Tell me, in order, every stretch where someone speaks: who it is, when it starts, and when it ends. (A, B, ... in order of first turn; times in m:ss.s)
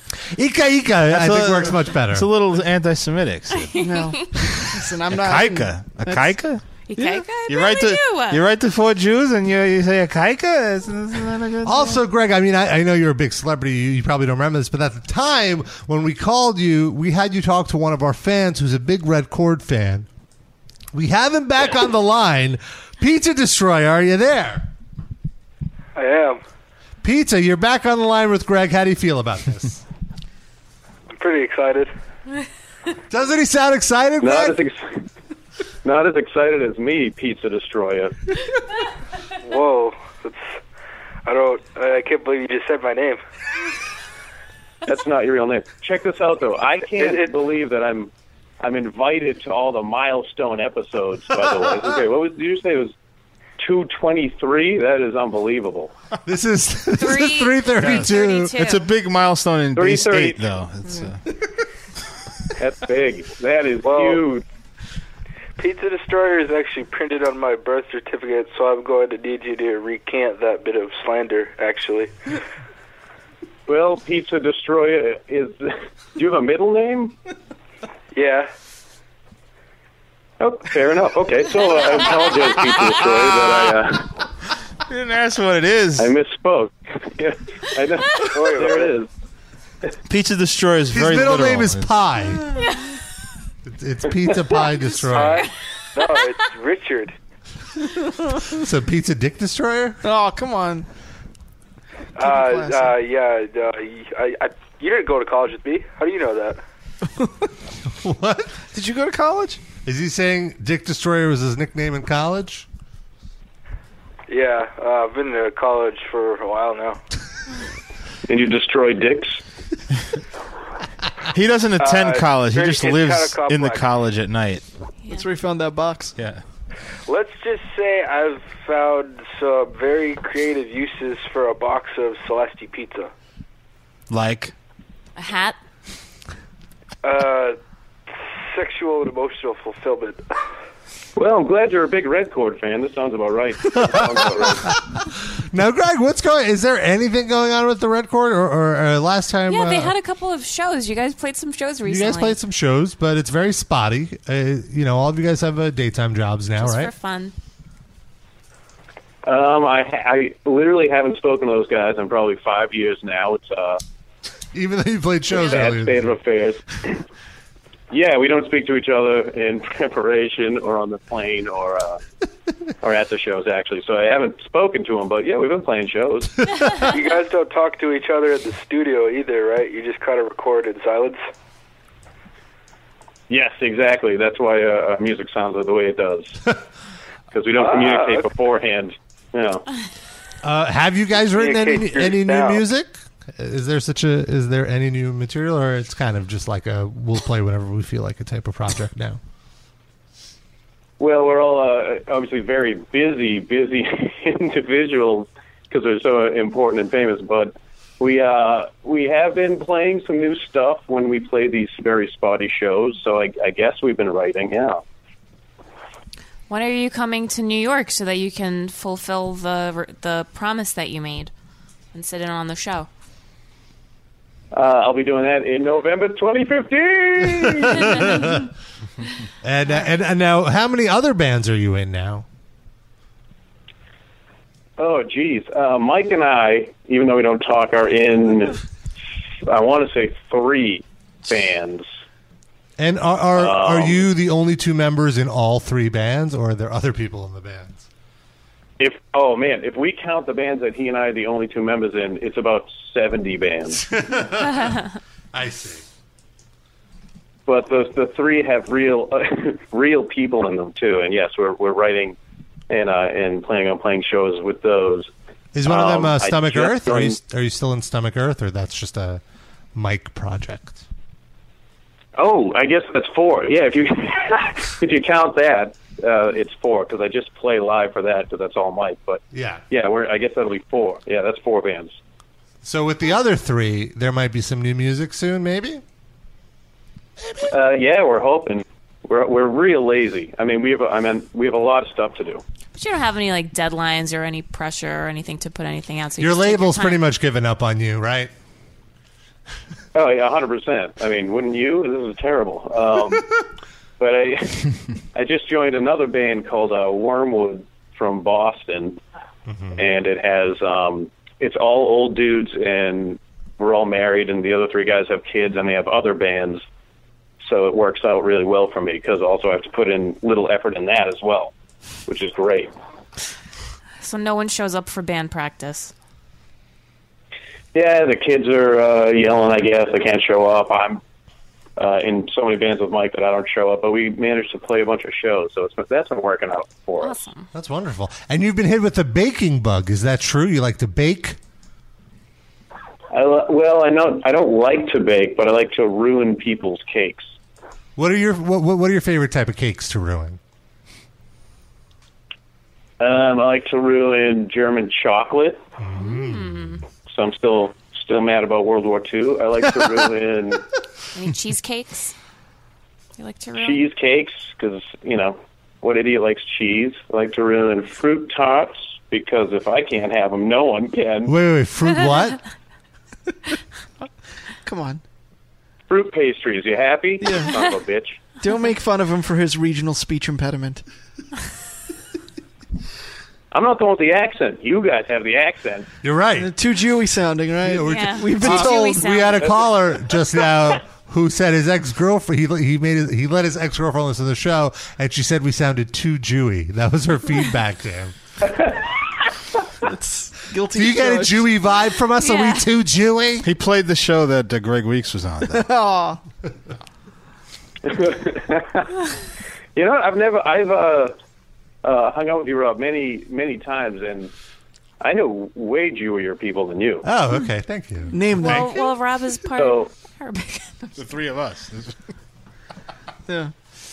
0:00.1-0:02.3 A
0:01.1-0:03.8 B
0:03.6-0:04.2 C
0:03.8-0:06.4 D
0:05.1-0:06.6 B
0:06.9-0:08.4 C
0:07.4-0:11.7 B
0:11.2-0:12.0 D
0:11.6-0:20.1 A
0:20.9-0:24.7 A
0:26.0-0:26.4 E
0:27.0-0:29.8 A
0:31.1-0:31.9 E
0:33.1-0:34.6 A
0:34.2-0:35.0 F
0:35.8-0:38.1 F
0:39.4-0:40.6 E
0:41.2-0:43.2 E
0:44.8-0:52.9 F
0:47.0-0:47.3 E
0:53.6-0:55.9 F
0:56.2-0:58.6 A
0:56.9-0:58.8 C
0:58.6-1:01.2 B
0:59.7-1:00.5 F
1:02.6-1:04.4 F
1:03.8-1:04.2 E
1:05.6-1:12.1 E
1:13.7-1:17.1 F
1:18.1-1:18.5 E
1:20.4-1:24.1 F
1:24.9-1:26.1 B
1:26.0-1:29.1 F
1:28.3-1:29.0 E
1:30.1-1:31.9 B
1:30.9-1:32.4 A
1:32.6-1:32.9 C
1:33.6-1:35.4 A
1:35.1-1:37.1 E
1:35.2-1:35.4 C
1:38.5-1:40.0 A
1:40.0-1:40.9 D
1:42.2-1:43.0 D
1:42.2-1:46.6 E
1:47.2-1:47.5 D
1:48.0-1:48.5 A
1:48.7-1:49.6 D
1:49.8-1:52.6 A
1:54.3-1:57.0 E
1:58.3-1:59.4 F
2:01.3-2:04.6 B
2:01.8-2:03.8 E
2:05.1-2:06.1 D
2:06.2-2:06.4 B
2:07.1-2:13.1 E
2:14.1-2:14.5 B
2:15.2-2:15.6 C
2:17.0-2:17.6 E
2:18.5-2:20.2 E
2:21.2-2:24.7 F
2:23.7-2:29.9 A
2:29.5-2:32.4 C
2:31.8-2:36.9 A
2:36.6-2:37.3 C
2:39.2-2:43.8 F
2:44.5-2:46.1 A
2:45.3-2:47.0 F
2:47.9-2:52.0 F
2:52.8-2:56.3 F
2:56.9-3:01.2 E
3:03.3-3:06.5 F
3:07.3-3:09.6 F
3:07.6-3:08.2 E
3:10.4-3:19.2 A
3:11.3-3:12.6 E
3:21.0-3:34.8 F
3:36.5-3:41.3 C
3:41.9-3:42.9 C
3:44.5-3:48.0 F
3:47.4-3:48.5 A
3:49.4-3:52.2 A
3:54.8-3:58.6 F
3:59.4-4:01.8 F
4:02.8-4:07.8 A
4:03.3-4:04.1 F
4:08.8-4:13.8 F
4:13.9-4:14.8 A
4:15.3-4:15.8 A
4:17.5-4:22.2 F
4:22.7-4:25.1 F
4:25.5-4:29.2 A
4:25.6-4:27.2 F
4:29.7-4:30.8 A
4:32.2-4:41.9 F
4:39.3-4:39.6 A
4:42.6-4:45.8 A
4:47.4-4:52.4 F
4:52.7-4:57.0 C
4:56.2-4:58.3 A
4:59.9-5:03.2 F
5:04.0-5:09.0 F
5:09.5-5:09.8 A
5:09.8-5:16.6 F
5:17.4-5:21.5 F
5:22.1-5:22.7 F
5:24.0-5:25.9 C
5:27.7-5:31.0 F
5:31.8-5:37.2 F
5:37.0-5:37.5 C
5:37.5-5:41.4 A
5:43.1-5:47.3 F
5:48.0-5:50.4 A
5:53.0-5:55.6 F
5:55.8-5:56.8 A
5:56.0-5:56.8 C
5:57.0-6:00.6 F
6:01.1-6:02.1 C
6:03.2-6:03.8 C
6:03.6-6:11.3 F
6:11.2-6:12.4 A
6:14.6-6:15.0 D
6:15.9-6:18.2 F
6:17.2-6:17.5 D
6:18.4-6:20.8 D
6:23.5-6:25.9 F
6:26.0-6:26.5 A
6:26.3-6:29.0 D
6:27.6-6:38.1 A
6:27.9-6:29.5 C
6:38.4-6:39.0 F
6:39.8-6:41.5 D
6:40.7-6:43.5 A
6:42.2-6:42.7 C
6:43.4-6:45.7 B
6:45.4-6:46.2 D
6:47.8-6:48.9 F
6:49.7-6:51.1 F
6:51.8-6:54.3 F
6:55.0-6:57.0 F
6:57.0-6:58.7 A
6:58.1-6:58.8 D
6:58.4-7:01.0 C
6:59.5-6:59.9 F
7:01.0-7:02.0 B